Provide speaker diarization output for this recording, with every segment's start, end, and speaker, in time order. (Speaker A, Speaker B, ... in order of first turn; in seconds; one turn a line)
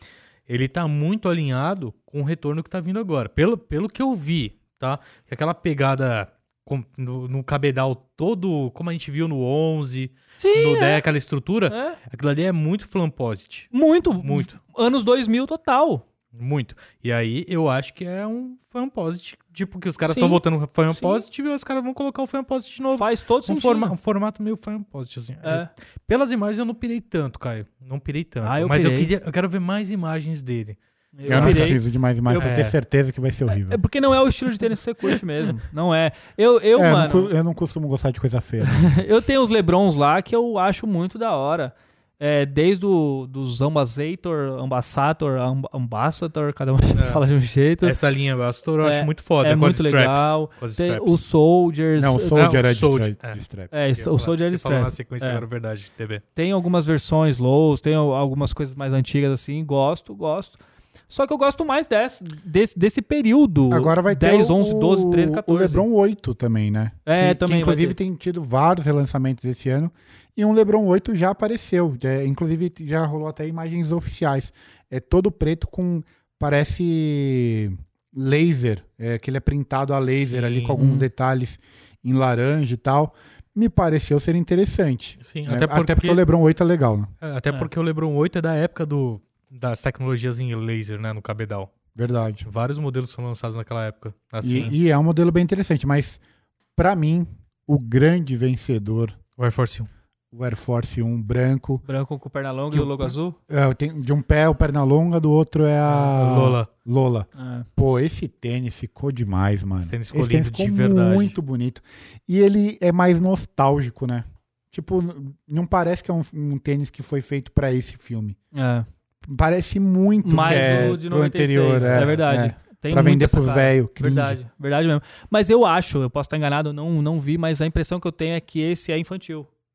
Speaker A: 0.5-14.6
Speaker B: 10.4-11.0
Speaker B: 11.7-12.0
Speaker B: 13.7-16.0
Speaker A: 16.3-31.8
Speaker B: 20.1-20.4
Speaker B: 20.9-21.2
Speaker B: 22.9-23.9
Speaker B: 25.4-25.7
Speaker B: 28.4-29.1
Speaker B: 31.1-32.5
Speaker C: 31.2-33.8
Speaker A: 32.4-32.7
Speaker B: 33.5-37.3
Speaker C: 36.8-39.0
Speaker B: 38.6-48.0
Speaker A: 47.0-47.2
Speaker A: 47.8-51.2
Speaker B: 48.8-52.4
Speaker C: 52.0-53.7
Speaker A: 52.3-53.4
Speaker B: 53.7-55.4
Speaker A: 53.9-56.2
Speaker B: 56.4-60.6
Speaker B: 61.1-65.8
Speaker C: 63.7-87.1
Speaker B: 67.0-68.0
Speaker A: 80.0-80.8
Speaker B: 80.7-81.1
Speaker A: 85.2-86.2
Speaker A: 87.2-91.7
Speaker C: 91.9-92.5
Speaker A: 92.4-94.7
Speaker C: 94.4-96.2
Speaker C: 96.8-99.2
Speaker A: 99.4-99.9
Speaker C: 100.3-101.8
Speaker B: 101.8-103.3
Speaker C: 102.7-118.4
Speaker A: 105.8-106.7
Speaker B: 107.3-107.7
Speaker A: 109.8-111.3
Speaker B: 118.5-118.9
Speaker C: 119.2-124.4
Speaker B: 120.2-129.5
Speaker A: 121.8-122.2